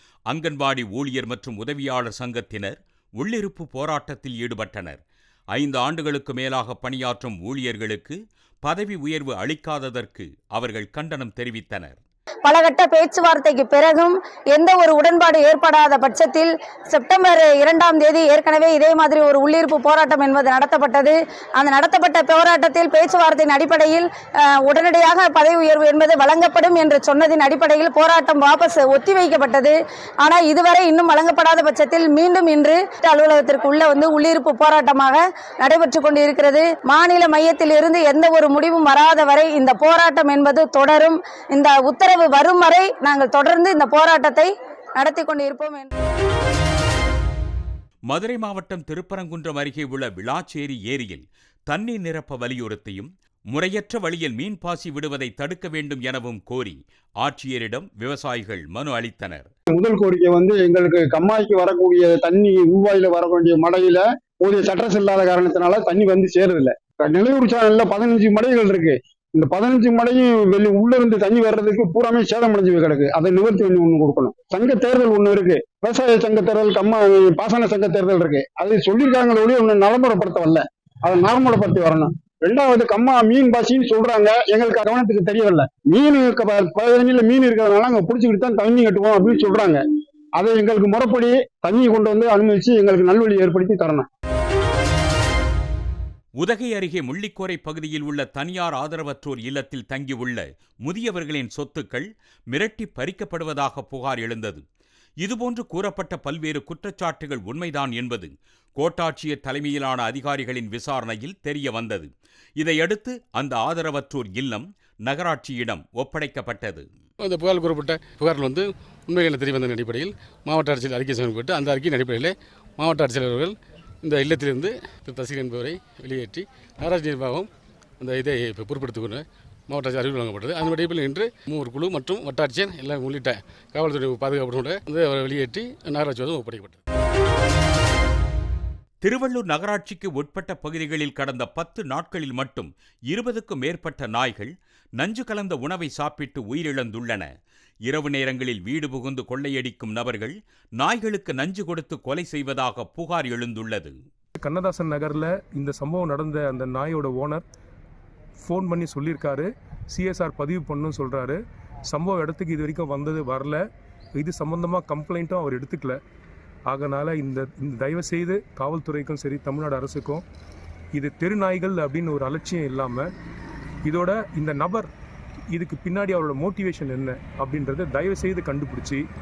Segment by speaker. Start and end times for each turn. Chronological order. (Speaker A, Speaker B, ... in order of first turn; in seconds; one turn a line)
Speaker A: 0.3-5.0
Speaker A: 5.5-12.0
Speaker B: 12.4-45.9
Speaker A: 48.1-59.5
Speaker C: 59.7-89.8
Speaker C: 90.3-94.1
Speaker A: 96.4-104.6
Speaker A: 105.2-116.9
Speaker D: 117.2-127.5
Speaker D: 128.0-136.8
Speaker A: 139.0-147.3
Speaker A: 147.8-153.9
Speaker E: 154.4-157.4
Speaker E: 158.4-163.6
Speaker E: 164.2-166.0
Speaker E: 166.7-170.2
Speaker E: 170.9-173.1
Speaker E: 173.8-174.9
Speaker E: 175.5-179.0